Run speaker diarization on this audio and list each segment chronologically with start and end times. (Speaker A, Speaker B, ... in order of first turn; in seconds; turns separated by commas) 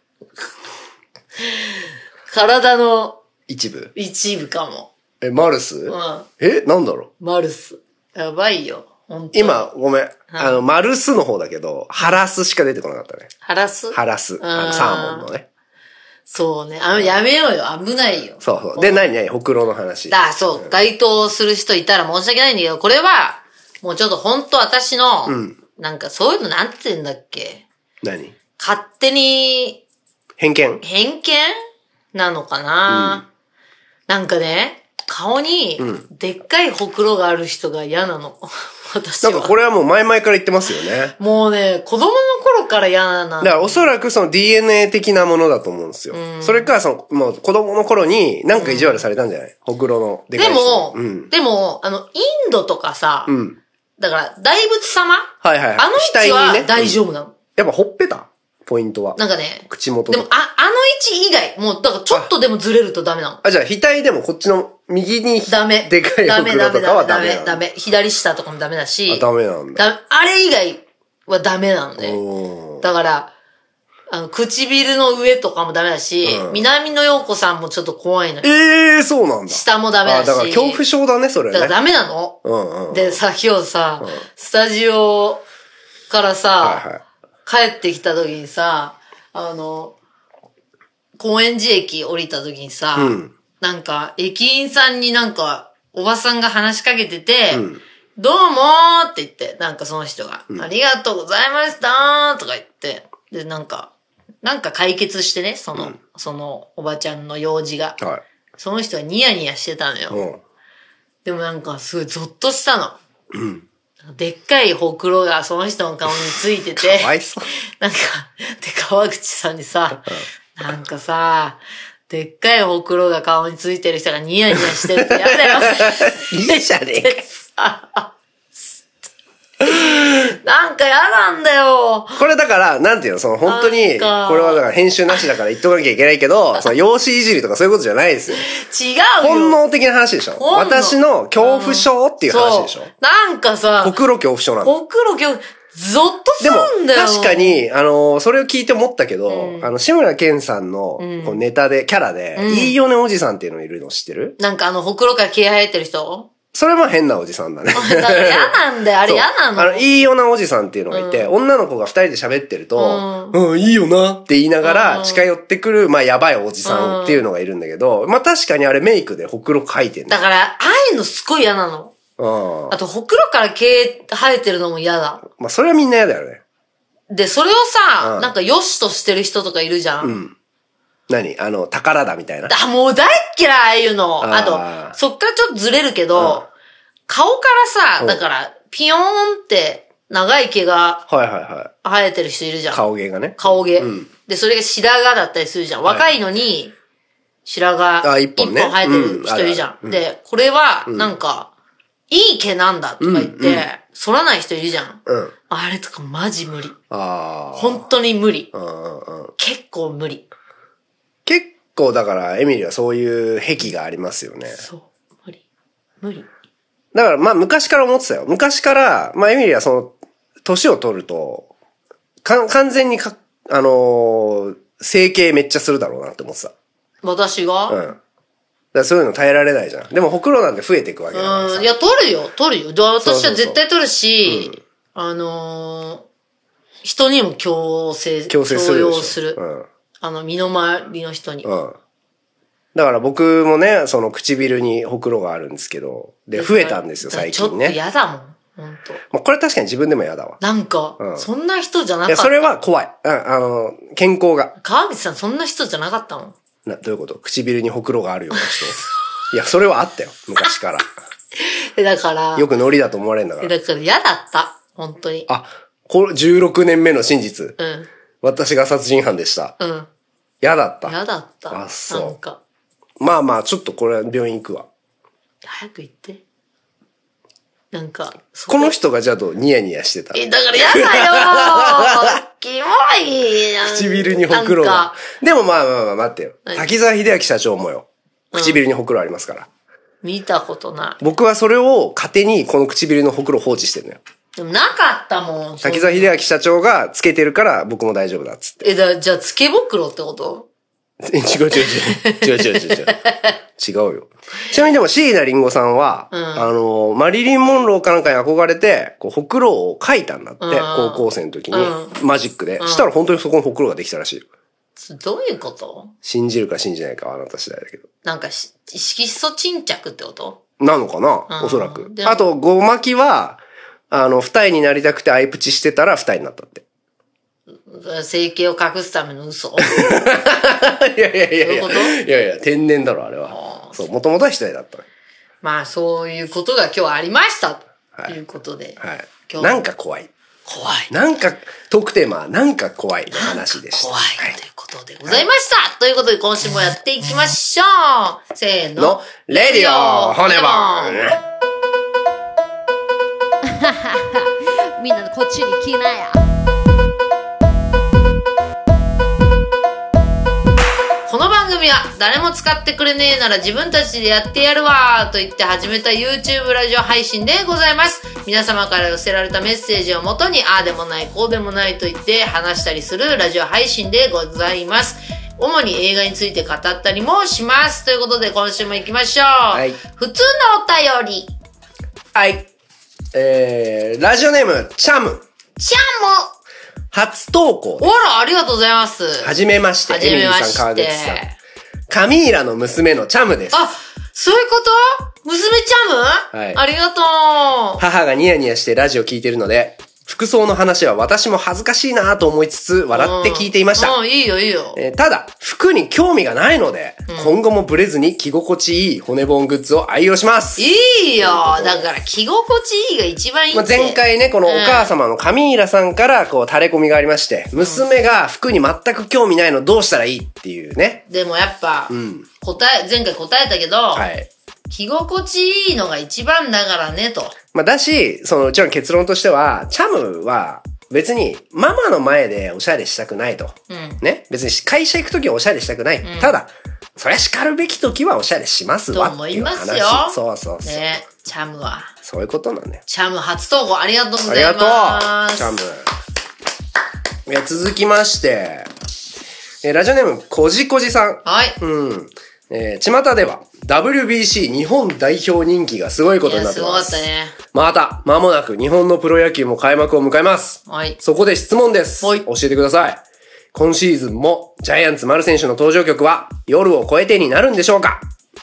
Speaker A: 1.4-3.2, Speaker B: 3.5-3.9, Speaker A: 3.9-4.9, Speaker B: 5.2-7.1, Speaker A: 5.9-6.3, Speaker A: 7.2-9.7, Speaker B: 9.3-13.3, Speaker A: 10.3-10.6, Speaker A: 13.4-15.3, Speaker B: 13.9-15.5, Speaker A: 16.3-19.1, Speaker B: 16.9-17.2, Speaker B: 18.4-20.7, Speaker A: 20.1-27.6, Speaker B: 25.3-25.6, Speaker B: 28.0-28.3, Speaker A: 28.6-29.8, Speaker B: 30.4-30.8, Speaker A: 30.8-31.6, Speaker A: 32.1-33.2, Speaker B: 32.9-33.2, Speaker A: 34.1-39.5, Speaker B: 35.8-36.0, Speaker B: 39.2-41.1, Speaker A: 41.2-43.9, Speaker B: 43.4-51.3, Speaker A: 46.1-46.7, Speaker A: 48.5-49.0, Speaker A: 50.4-53.4, Speaker B: 53.3-53.6, Speaker A: 54.0-57.3, Speaker B: 55.4-57.0, Speaker B: 57.5-60.3, Speaker A: 59.1-63.4, Speaker B: 63.4-67.6, Speaker A: 65.5-72.2, Speaker B: 69.1-69.8, Speaker B: 72.0-72.8, Speaker A: 72.8-73.3, Speaker A: 74.1-78.5, Speaker B: 76.2-76.6, Speaker B: 78.4-81.7, Speaker A: 79.5-80.8, Speaker A: 81.5-85.4, Speaker B: 82.4-83.2, Speaker A: 86.1-86.8, Speaker B: 86.6-87.0, Speaker A: 87.5-89.9, Speaker A: 91.2-97.7, Speaker B: 93.0-93.3, Speaker B: 97.5-97.8, Speaker A: 98.2-103.9, Speaker A: 104.4-108.0, Speaker A: 108.6-110.2, Speaker B: 110.1-110.4, Speaker A: 111.2-113.0, Speaker B: 113.3-113.7, Speaker A: 114.0-117.1, Speaker B: 116.8-117.5, Speaker A: 117.8-128.1, Speaker B: 124.7-127.2, Speaker A: 129.6-132.2, Speaker B: 132.1-138.5, Speaker A: 133.4-134.7, Speaker A: 138.3-139.6, Speaker B: 139.2-142.9, Speaker A: 140.4-144.0, Speaker B: 143.8-144.7, Speaker A: 144.6-147.6, Speaker B: 146.4-154.3, Speaker A: 149.3-149.7, Speaker A: 151.0-151.4, Speaker A: 152.3-152.8, Speaker A: 154.4-156.3, Speaker B: 156.5-170.3, Speaker A: 157.7-159.8, Speaker A: 160.9-161.3, Speaker A: 162.7-163.4, Speaker A: 164.6-165.2, Speaker A: 166.6-167.2, Speaker A: 170.1-171.9, Speaker B: 172.2-172.8, Speaker A: 172.7-175.2, Speaker B: 175.3-176.4, Speaker A: 177.1-180.2, Speaker B: 178.0-178.3, Speaker B: 180.0-180.3, Speaker B: 181.1-182.5, Speaker A: 182.5-186.5, Speaker B: 184.2-184.9, Speaker B: 186.2-186.4, Speaker A: 187.1-191.1, Speaker B: 191.1-191.7, Speaker A: 191.8-192.8, Speaker B: 192.7-194.1, Speaker A: 193.3-196.7, Speaker A: 197.4-201.5, Speaker B: 198.0-200.0, Speaker A: 202.1-206.8, Speaker B: 203.0-203.7, Speaker B: 205.1-205.3, Speaker B: 206.9-207.8, Speaker A: 207.5-208.5, Speaker B: 208.5-209.3, Speaker A: 209.4-210.2, Speaker B: 211.2-214.6, Speaker A: 214.5-215.4, Speaker A: 216.0-216.3, Speaker B: 216.9-221.5, Speaker B: 222.2-226.5, Speaker A: 227.0-227.8, Speaker B: 227.7-228.0, Speaker B: 228.7-231.7, Speaker A: 231.1-236.1, Speaker B: 233.0-233.6, Speaker B: 234.2-234.6, Speaker A: 236.8-239.4, Speaker B: 238.3-239.7, Speaker A: 240.0-241.5, Speaker B: 241.4-241.8, Speaker B: 242.7-247.8, Speaker A: 246.3-249.0, Speaker B: 249.1-250.4, Speaker A: 250.4-252.5, Speaker B: 251.0-251.2, Speaker B: 252.1-254.5, Speaker A: 254.6-256.4, Speaker B: 256.6-258.8, Speaker A: 258.4-258.8, Speaker B: 259.3-260.9, Speaker A: 261.4-262.5, Speaker B: 262.4-263.5, Speaker A: 263.4-265.3, Speaker B: 265.3-267.6, Speaker A: 267.6-267.9, Speaker B: 268.2-269.5, Speaker A: 269.6-269.9, Speaker B: 270.4-270.9, Speaker A: 270.9-272.4, Speaker B: 271.5-272.1, Speaker B: 273.0-274.7, Speaker A: 275.4-276.2, Speaker A: 277.7-278.7, Speaker B: 278.5-282.2, Speaker A: 280.1-285.0, Speaker B: 283.6-289.5, Speaker A: 288.3-288.6, Speaker A: 290.0-291.0, Speaker B: 291.0-294.0, Speaker A: 294.4-296.1, Speaker B: 295.6-298.7, Speaker A: 298.6-300.5, Speaker B: 301.0-303.0, Speaker A: 301.6-303.4, Speaker B: 303.6-314.2, Speaker A: 306.1-306.5, Speaker A: 310.4-311.9, Speaker A: 312.6-312.9, Speaker A: 314.8-315.9, Speaker B: 316.0-317.9, Speaker A: 318.0-320.4, Speaker B: 320.6-323.4, Speaker A: 321.3-322.2, Speaker B: 323.9-326.6, Speaker A: 327.6-330.0, Speaker B: 329.6-334.8, Speaker A: 331.4-332.0, Speaker A: 333.3-333.8, Speaker A: 335.4-339.6, Speaker B: 338.8-340.1, Speaker A: 340.4-340.9, Speaker B: 340.9-344.4, Speaker A: 343.1-351.1, Speaker B: 348.8-351.2, Speaker C: 353.4-356.2, Speaker A: 361.1-381.3, Speaker B: 379.5-379.8, Speaker B: 382.1-382.5, Speaker B: 383.1-385.2, Speaker A: 385.6-386.3, Speaker B: 386.9-387.9, Speaker A: 387.8-391.4, Speaker B: 389.2-391.2, Speaker B: 391.9-393.6, Speaker A: 393.5-397.8, Speaker B: 396.3-396.6, Speaker B: 397.8-403.9, Speaker A: 402.9-404.8, Speaker B: 404.7-410.7, Speaker A: 407.1-407.4, Speaker A: 410.6-414.9, Speaker B: 411.2-411.9, Speaker B: 413.5-421.0, Speaker A: 417.6-417.8, Speaker A: 421.1-424.1, Speaker B: 421.9-422.3, Speaker B: 423.9-424.3, Speaker A: 424.7-427.4, Speaker B: 427.5-440.8, Speaker A: 433.7-434.0, Speaker A: 436.0-436.3, Speaker A: 438.9-441.9, Speaker B: 442.0-442.8, Speaker A: 442.9-445.5, Speaker B: 444.2-445.9, Speaker B: 447.2-448.7, Speaker B: 449.6-463.0, Speaker A: 451.2-451.6, Speaker A: 456.2-457.4, Speaker A: 460.7-461.0, Speaker A: 462.0-462.3, Speaker B: 463.5-468.1